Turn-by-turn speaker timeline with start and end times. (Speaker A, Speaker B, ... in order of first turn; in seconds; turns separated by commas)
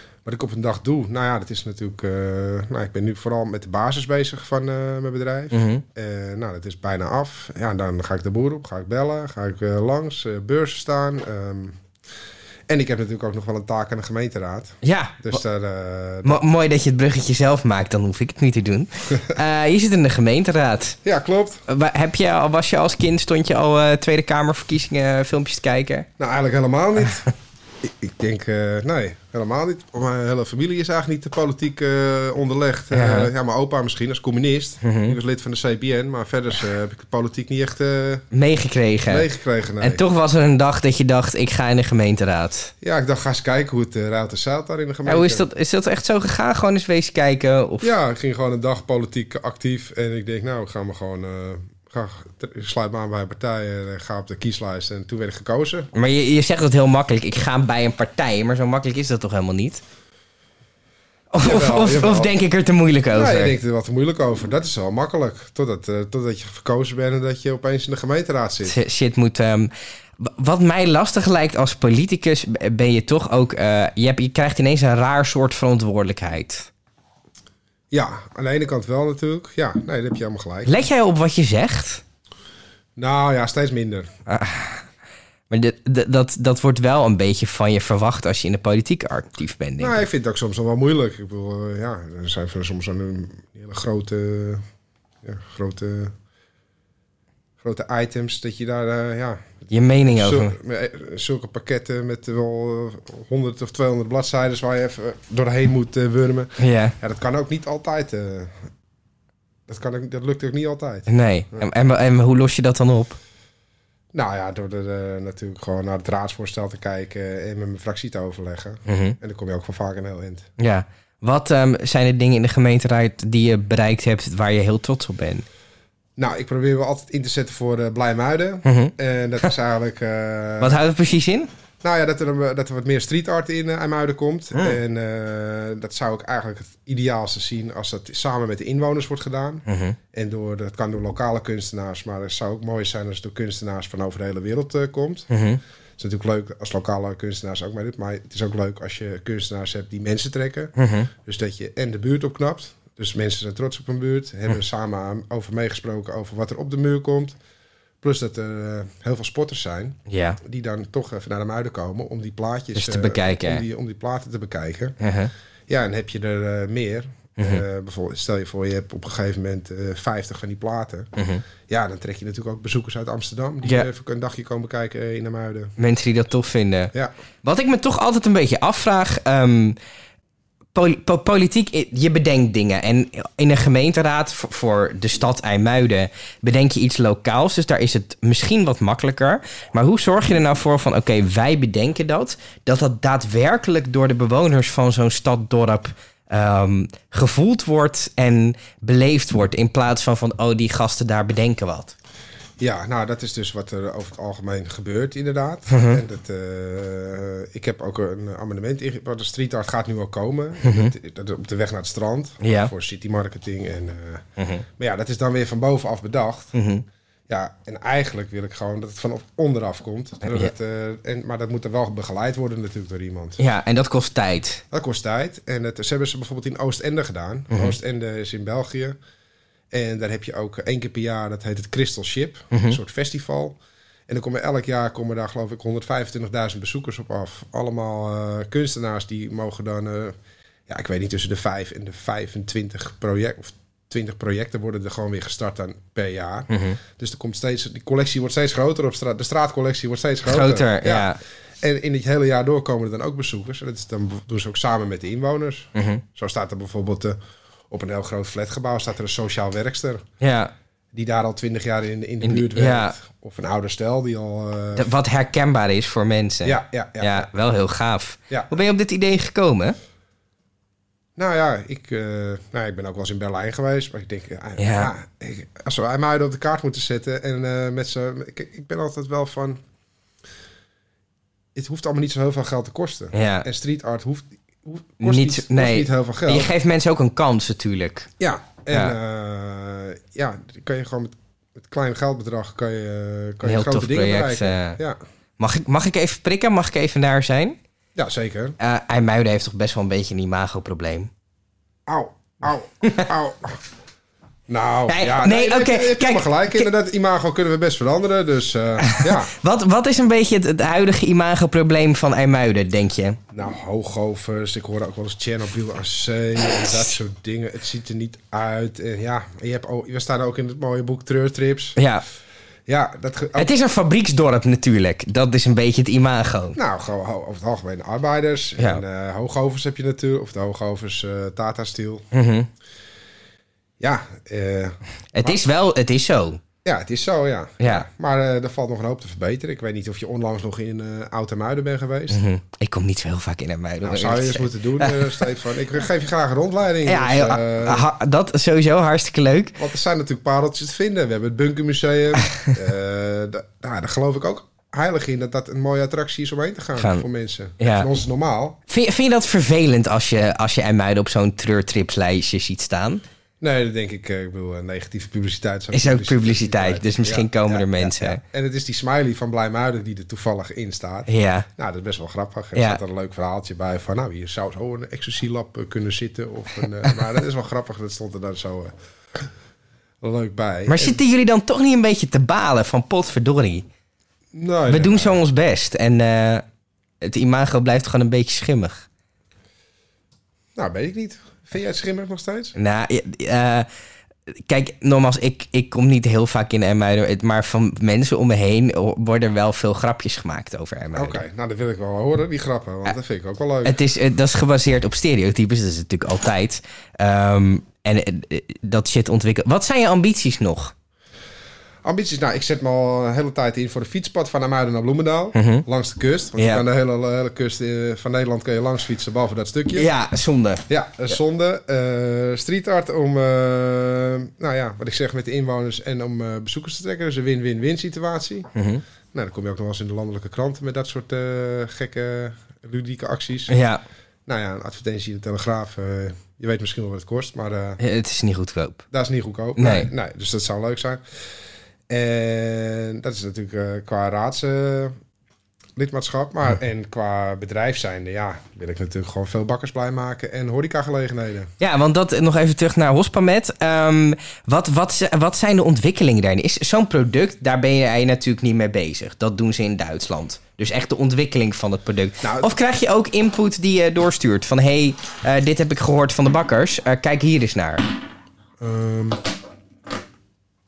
Speaker A: 0.2-11.8, Speaker B: 5.5-5.8, Speaker A: 12.7-16.4, Speaker B: 14.8-15.4, Speaker B: 16.2-21.0, Speaker A: 21.0-21.6, Speaker B: 21.7-26.1, Speaker A: 26.2-27.3, Speaker A: 27.8-38.2, Speaker B: 32.9-33.3, Speaker B: 34.8-35.2, Speaker B: 38.3-39.3, Speaker A: 39.1-40.0, Speaker B: 39.8-42.7, Speaker A: 42.8-45.5, Speaker B: 45.1-47.9, Speaker A: 47.8-55.9, Speaker B: 55.9-59.8, Speaker B: 61.3-63.5, Speaker A: 61.4-62.3, Speaker A: 63.1-68.8, Speaker B: 68.7-76.7, Speaker A: 77.9-80.7, Speaker B: 80.7-82.0, Speaker A: 83.0-84.1, Speaker B: 84.3-84.8, Speaker B: 85.5-90.1, Speaker A: 89.8-94.6, Speaker A: 95.2-96.1, Speaker A: 97.6-108.6, Speaker B: 99.7-100.5, Speaker B: 106.6-107.0, Speaker A: 109.7-111.7, Speaker B: 111.1-113.2, Speaker A: 114.1-120.5, Speaker B: 118.9-119.2, Speaker B: 120.6-125.5, Speaker A: 126.2-130.8, Speaker B: 128.6-128.9, Speaker B: 130.6-131.5, Speaker A: 131.8-145.3, Speaker B: 139.7-140.0, Speaker B: 145.3-145.6, Speaker A: 146.0-157.4, Speaker B: 150.8-151.1, Speaker A: 158.0-165.0, Speaker B: 160.1-160.4, Speaker B: 162.7-163.6, Speaker B: 165.0-165.3, Speaker A: 165.7-171.1, Speaker B: 167.4-167.6, Speaker B: 171.2-171.4, Speaker A: 171.7-175.7, Speaker B: 175.8-176.9, Speaker B: 177.4-179.8, Speaker B: 180.7-201.9, Speaker A: 202.6-214.2, Speaker B: 205.7-206.0, Speaker B: 210.6-210.9, Speaker B: 212.4-212.7, Speaker B: 214.4-214.7, Speaker A: 214.8-216.5, Speaker B: 216.5-216.8, Speaker A: 217.3-223.4, Speaker B: 220.2-220.5, Speaker B: 223.4-224.6, Speaker A: 224.7-229.0, Speaker B: 227.5-227.8, Speaker A: 229.7-233.6, Speaker B: 232.5-232.8, Speaker A: 234.1-240.2, Speaker A: 240.7-257.2, Speaker B: 246.5-246.8, Speaker B: 250.3-251.2, Speaker B: 255.8-256.0, Speaker A: 257.7-260.0, Speaker B: 260.2-260.5, Speaker A: 260.9-264.9, Speaker B: 262.2-263.0, Speaker B: 264.8-269.8, Speaker A: 266.4-267.3, Speaker A: 271.2-279.6, Speaker B: 274.6-274.9, Speaker A: 281.6-286.5, Speaker B: 283.1-283.5, Speaker B: 285.0-288.1, Speaker A: 288.2-295.0, Speaker B: 288.7-288.9, Speaker B: 293.4-294.8, Speaker B: 295.4-297.6, Speaker A: 298.0-298.6, Speaker B: 298.6-301.1, Speaker A: 301.9-303.6, Speaker A: 304.5-309.4, Speaker B: 304.9-306.7, Speaker B: 308.8-313.2, Speaker A: 313.3-321.8, Speaker B: 316.6-316.9, Speaker B: 321.8-322.0, Speaker A: 322.7-323.5, Speaker B: 323.4-326.6, Speaker A: 326.6-332.1, Speaker B: 332.1-332.5, Speaker A: 333.8-335.4, Speaker B: 335.1-336.4, Speaker A: 336.6-342.2, Speaker B: 337.6-337.9, Speaker B: 342.1-345.0, Speaker A: 343.8-347.9, Speaker B: 346.9-349.6, Speaker A: 349.6-358.6, Speaker B: 356.8-357.1, Speaker B: 357.6-357.9, Speaker B: 358.7-363.0, Speaker A: 363.4-379.3, Speaker B: 365.7-368.2, Speaker B: 371.1-371.5, Speaker B: 372.6-372.8, Speaker A: 380.0-381.0, Speaker B: 380.7-383.6, Speaker A: 384.3-385.2, Speaker B: 384.7-386.4, Speaker B: 387.0-388.9, Speaker A: 390.6-392.5, Speaker B: 392.6-393.7, Speaker B: 394.5-401.2, Speaker A: 400.9-403.8, Speaker B: 403.6-410.7, Speaker A: 411.8-419.9, Speaker B: 415.4-415.6, Speaker B: 416.4-416.6, Speaker B: 419.8-420.6, Speaker A: 420.7-428.5, Speaker B: 428.5-428.8, Speaker A: 429.1-433.6, Speaker B: 433.5-433.8, Speaker A: 434.3-437.8, Speaker B: 437.8-438.8, Speaker A: 438.9-441.0, Speaker B: 439.6-439.9, Speaker A: 441.9-444.9, Speaker A: 445.8-451.5, Speaker B: 451.6-467.9, Speaker A: 462.2-462.5, Speaker A: 468.6-469.2